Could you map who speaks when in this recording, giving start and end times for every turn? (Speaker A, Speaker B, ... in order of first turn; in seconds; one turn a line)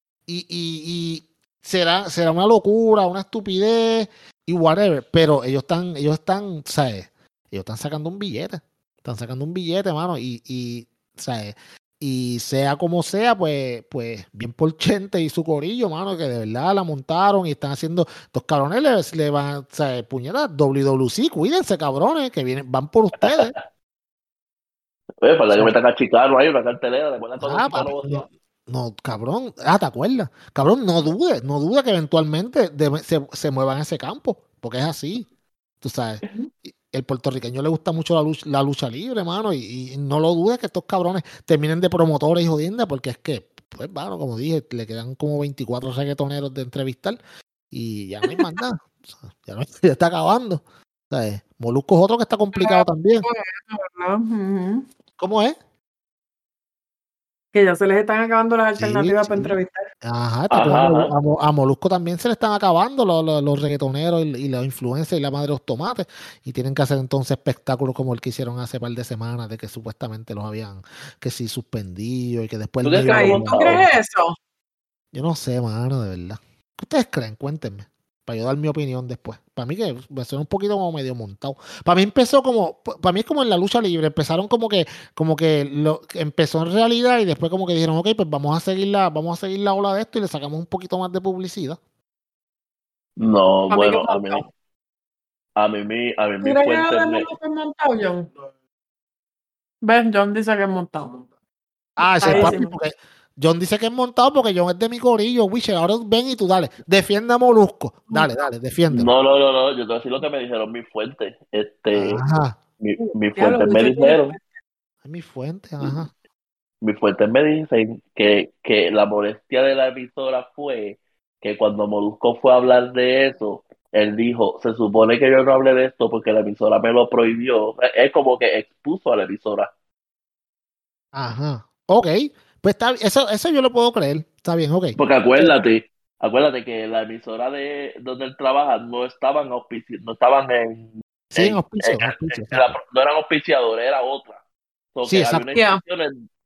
Speaker A: 0.3-23.6
Speaker B: 23.2-23.6
Speaker B: 25.2-28.3
Speaker A: 27.4-35.3
Speaker A: 35.8-47.2
Speaker A: 47.7-53.3
Speaker C: 48.2-48.6
Speaker C: 52.6-54.9
Speaker A: 55.2-55.6
Speaker C: 57.5-59.9
Speaker A: 58.8-73.9
Speaker B: 60.5-61.1
Speaker B: 72.8-73.9
Speaker C: 73.1-74.4
Speaker A: 75.1-91.8
Speaker B: 93.2-94.5
Speaker C: 93.7-94.5
Speaker B: 95.6-97.3
Speaker C: 96.4-98.3
Speaker C: 99.8-101.3
Speaker A: 102.0-109.1
Speaker C: 102.2-102.8
Speaker B: 102.2-102.6
Speaker C: 108.1-108.5
Speaker B: 108.9-112.2
Speaker A: 111.9-112.6
Speaker B: 112.8-114.4
Speaker C: 113.0-114.5
Speaker A: 115.0-116.1
Speaker B: 116.8-129.7
Speaker A: 131.1-135.0
Speaker B: 135.0-144.4
Speaker A: 141.3-142.8
Speaker B: 144.9-146.3
Speaker A: 145.1-145.5
Speaker C: 145.6-145.8